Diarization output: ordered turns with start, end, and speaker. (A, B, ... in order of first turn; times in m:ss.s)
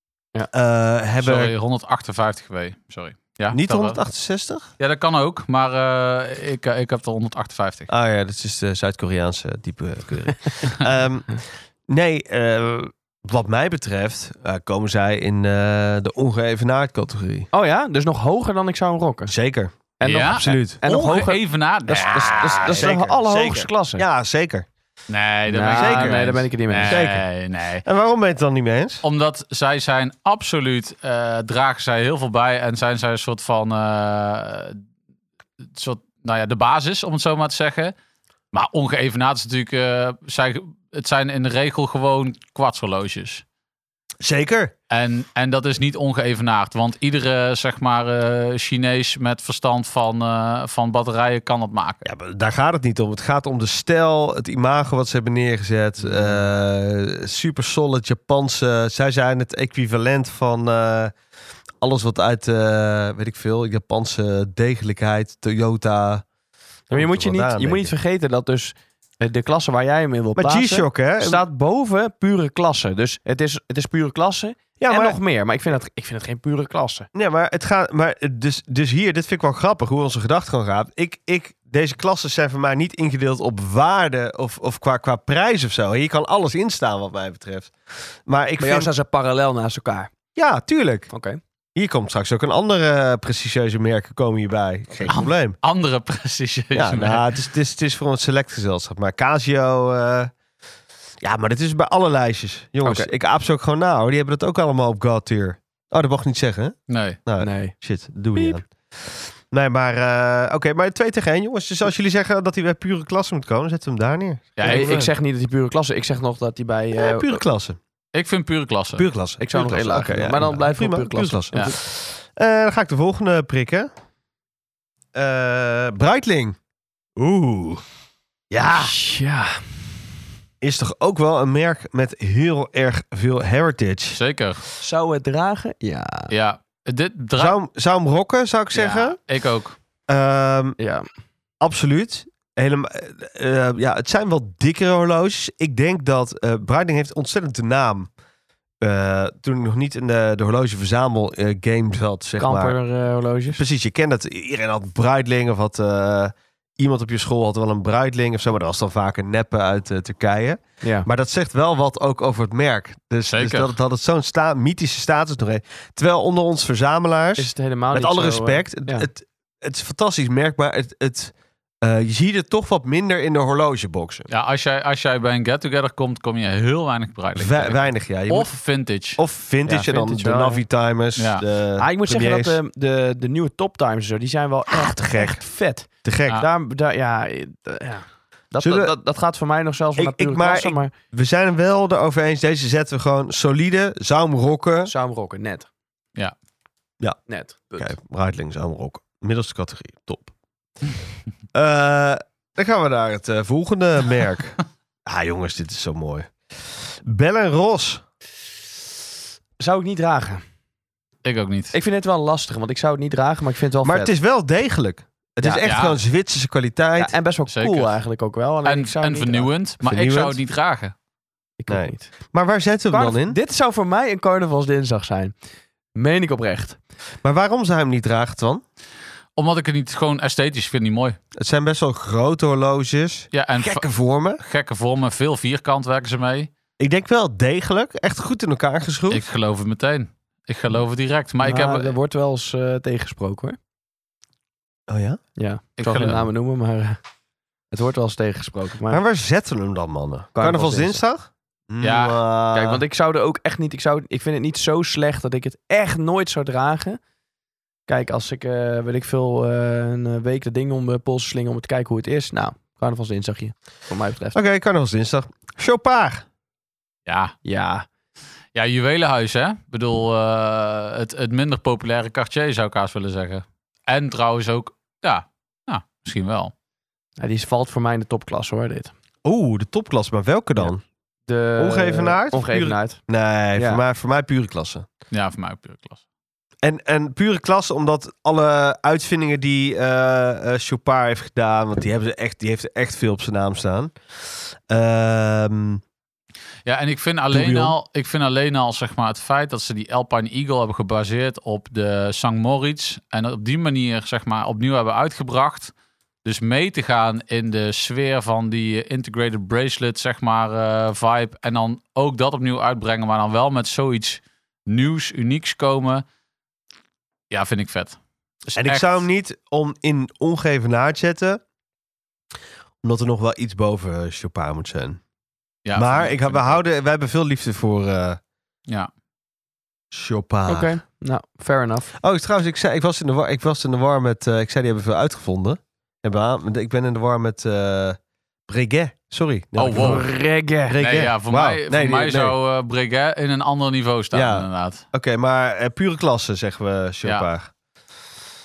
0:00.5-0:01.5 A
0:01.2-0:04.0 B
0:03.5-0:04.7 A
0:04.8-0:07.9 B
0:07.9-0:17.5 A
0:17.5-0:19.3 C
0:19.3-0:20.8 A
0:20.0-0:24.0 C
0:20.0-0:22.9 B
0:21.9-0:24.7 A
0:25.1-0:27.8 B
0:25.5-0:27.0 C
0:25.7-0:26.3 A
0:26.8-0:27.3 A
0:27.8-0:29.0 A
0:29.0-0:34.8 B
0:35.7-0:37.9 B
0:38.5-0:43.4 B
0:44.2-0:44.7 A
0:44.9-0:52.0 B
0:52.0-1:01.1 A
1:01.8-1:06.2 A
1:06.9-1:07.9 A
1:06.9-1:17.1 C
1:10.4-1:11.4 A
1:14.8-1:15.2 A
1:17.1-1:27.7 A
1:28.2-1:28.9 A
1:28.6-1:30.1 C
1:30.4-1:31.1 A
1:31.1-1:31.4 C
1:31.8-1:35.6 A
1:35.1-1:37.3 B
1:36.7-1:40.3 A
1:41.2-1:46.7 A
1:42.8-1:43.1 C
1:46.9-1:47.2 B
1:47.2-1:55.1 A
1:47.4-1:47.7 C
1:48.3-1:48.6 C
1:54.6-1:55.1 B
1:54.6-1:57.4 C
1:57.0-1:57.8 A
1:58.1-1:59.1 B
1:59.0-2:03.9 A
1:59.4-2:01.8 C
2:05.1-2:06.6 A
2:07.2-2:07.8 A
2:08.5-2:08.9 A
2:08.7-2:09.8 C
2:10.6-2:14.2 A
2:14.1-2:14.6 B
2:14.8-2:16.3 C
2:16.3-2:17.6 B
2:17.4-2:19.2 A
2:18.7-2:19.8 B
2:20.1-2:20.8 A
2:20.8-2:21.0 C
2:21.6-2:28.1 A
2:28.8-2:32.8 A
2:32.4-2:33.6 C
2:33.5-2:54.3 A
2:40.8-2:41.1 C
2:43.3-2:43.7 B
2:47.4-2:49.1 C
2:54.3-2:59.2 B
2:57.4-2:58.5 A
2:59.2-3:02.6 A
2:59.6-3:00.6 C
3:01.2-3:01.4 B
3:01.8-3:10.9 C
3:04.7-3:05.4 A
3:06.0-3:06.4 A
3:08.6-3:08.9 A
3:10.0-3:14.9 A
3:14.8-3:15.7 C
3:17.3-3:17.9 C
3:17.8-3:20.3 A
3:21.5-3:28.0 A
3:29.6-3:30.4 C
3:31.2-3:31.7 B
3:31.7-3:34.1 C
3:33.8-3:37.2 A
3:35.6-3:36.0 B
3:37.0-3:39.5 C
3:37.5-3:37.9 B
3:38.6-3:40.9 B
3:39.8-3:40.4 A
3:41.6-3:42.1 C
3:41.7-3:43.4 A
3:42.9-3:45.3 C
3:46.0-3:46.8 C
3:47.2-3:48.6 A
3:49.4-3:51.2 B
3:51.4-3:54.4 A
3:53.3-3:56.5 B
3:56.8-3:59.2 A
3:59.1-4:01.9 B
4:01.4-4:03.6 C
4:04.9-4:05.2 A
4:05.4-4:07.0 C
4:05.8-4:06.2 B
4:07.7-4:09.0 C
4:08.9-4:12.8 A
4:10.4-4:11.0 C
4:11.8-4:12.2 B
4:12.5-4:17.0 C
4:17.9-4:24.4 C
4:24.3-4:26.2 A
4:27.0-4:27.3 B
4:27.4-4:27.9 C
4:28.5-4:36.5 B
4:37.2-4:38.9 C
4:39.2-4:40.8 A
4:41.3-4:43.0 C
4:41.6-4:44.8 A
4:43.5-4:43.8 C
4:45.1-4:46.0 B
4:46.6-4:55.8 A
4:56.6-5:05.7 B
4:57.3-4:57.7 A
5:06.2-5:16.0 B
5:17.3-5:18.0 B
5:18.5-5:19.0 B
5:18.5-5:21.4 A
5:22.8-5:25.0 A
5:25.6-5:26.6 B
5:25.7-5:28.2 A
5:29.9-5:30.8 A
5:30.5-5:31.9 C
5:32.0-5:42.3 A
5:39.6-5:40.0 B
5:39.7-5:40.8 C
5:40.8-5:44.8 B
5:44.1-5:47.5 A